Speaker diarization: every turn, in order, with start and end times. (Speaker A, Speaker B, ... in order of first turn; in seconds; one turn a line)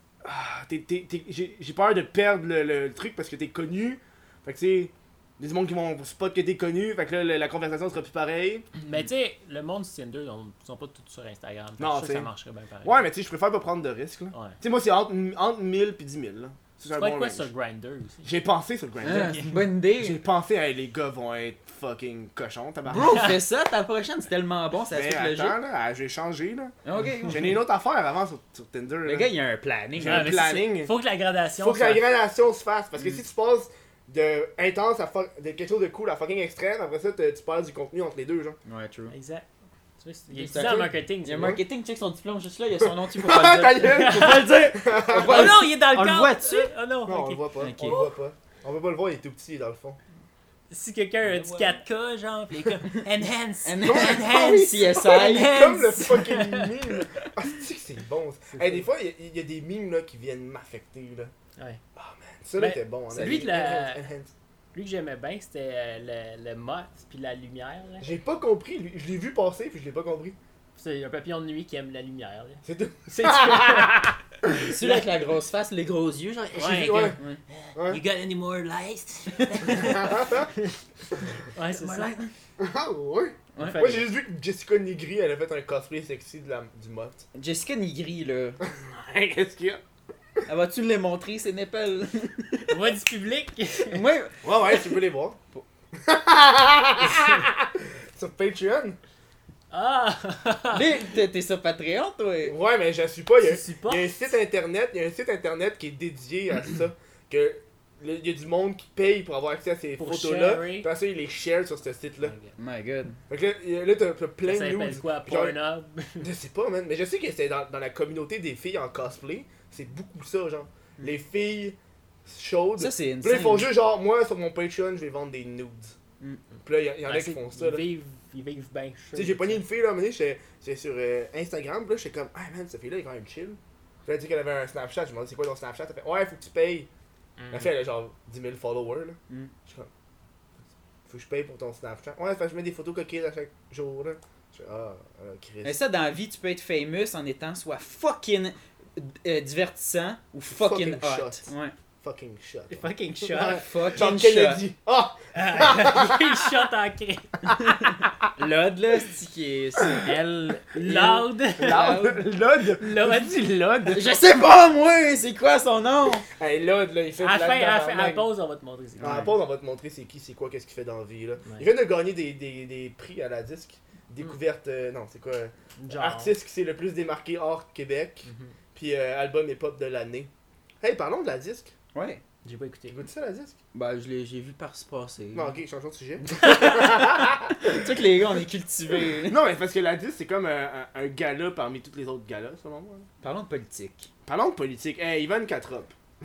Speaker A: 0.2-8.7
Speaker B: 8.8-13.0
Speaker A: 11.8-12.3
Speaker A: 12.8-17.5
Speaker B: 14.3-14.6
Speaker B: 16.9-18.3
Speaker A: 18.2-23.3
Speaker B: 19.0-19.6
Speaker C: 19.1-20.2
Speaker C: 22.9-25.6
Speaker B: 23.0-23.3
Speaker A: 24.9-26.8
Speaker C: 26.9-27.6
Speaker A: 27.3-29.3
Speaker C: 29.1-30.4
Speaker A: 30.0-30.9
Speaker B: 30.0-32.0
Speaker A: 31.6-38.6
Speaker C: 38.7-39.1
Speaker B: 39.1-39.5
Speaker B: 40.0-41.6
Speaker C: 40.3-46.7
Speaker A: 41.4-41.6
Speaker A: 42.8-45.6
Speaker B: 43.9-48.1
Speaker A: 47.1-50.0
Speaker C: 47.6-48.0
Speaker B: 50.7-57.0
Speaker C: 53.6-55.6
Speaker A: 53.8-61.3
Speaker B: 58.5-58.9
Speaker A: 62.0-64.3
Speaker B: 62.6-64.0
Speaker C: 63.1-63.5
Speaker B: 64.7-68.1
Speaker A: 68.0-70.4
Speaker B: 70.8-74.1
Speaker A: 72.7-74.7
Speaker C: 74.5-77.4
Speaker B: 76.5-80.7
Speaker A: 76.6-77.2
Speaker A: 77.8-78.0
Speaker C: 79.5-79.8
Speaker A: 79.8-80.5
Speaker B: 81.5-82.3
Speaker C: 81.8-82.2
Speaker A: 82.6-87.2
Speaker C: 83.5-84.0
Speaker B: 83.6-84.0
Speaker C: 87.3-88.6
Speaker A: 88.6-89.8
Speaker C: 90.5-92.8
Speaker B: 92.7-94.0
Speaker C: 93.9-94.4
Speaker A: 94.4-95.4
Speaker A: 95.9-99.0
Speaker B: 99.7-100.9
Speaker C: 100.7-102.5
Speaker A: 102.4-112.3
Speaker B: 103.4-104.1
Speaker B: 110.0-110.9
Speaker B: 112.2-112.5
Speaker C: 112.6-113.2
Speaker A: 113.3-115.6
Speaker B: 114.5-116.3
Speaker A: 116.2-126.0
Speaker C: 122.8-123.7
Speaker A: 126.6-127.8
Speaker B: 127.1-129.6
Speaker A: 129.2-136.9
Speaker B: 137.4-137.7
Speaker A: 137.5-139.9
Speaker C: 139.3-139.5
Speaker A: 141.1-145.8
Speaker C: 145.6-151.8
Speaker A: 150.5-151.5
Speaker A: 152.0-156.4
Speaker B: 152.7-153.6
Speaker C: 153.6-154.6
Speaker B: 155.3-157.5
Speaker C: 158.2-162.2
Speaker B: 160.1-162.1
Speaker A: 160.7-164.2
Speaker B: 162.8-163.5
Speaker C: 163.9-166.3
Speaker A: 166.4-168.3
Speaker B: 167.2-169.3
Speaker C: 169.0-169.3
Speaker A: 169.0-180.3
Speaker B: 171.4-171.7
Speaker B: 175.8-176.3
Speaker B: 178.3-178.5
Speaker A: 180.8-181.7
Speaker C: 181.9-182.2
Speaker B: 182.4-183.0
Speaker A: 182.9-183.6
Speaker C: 183.7-185.6
Speaker A: 185.3-187.8
Speaker C: 186.2-189.4
Speaker A: 189.2-193.1
Speaker C: 193.2-194.1
Speaker A: 194.2-195.9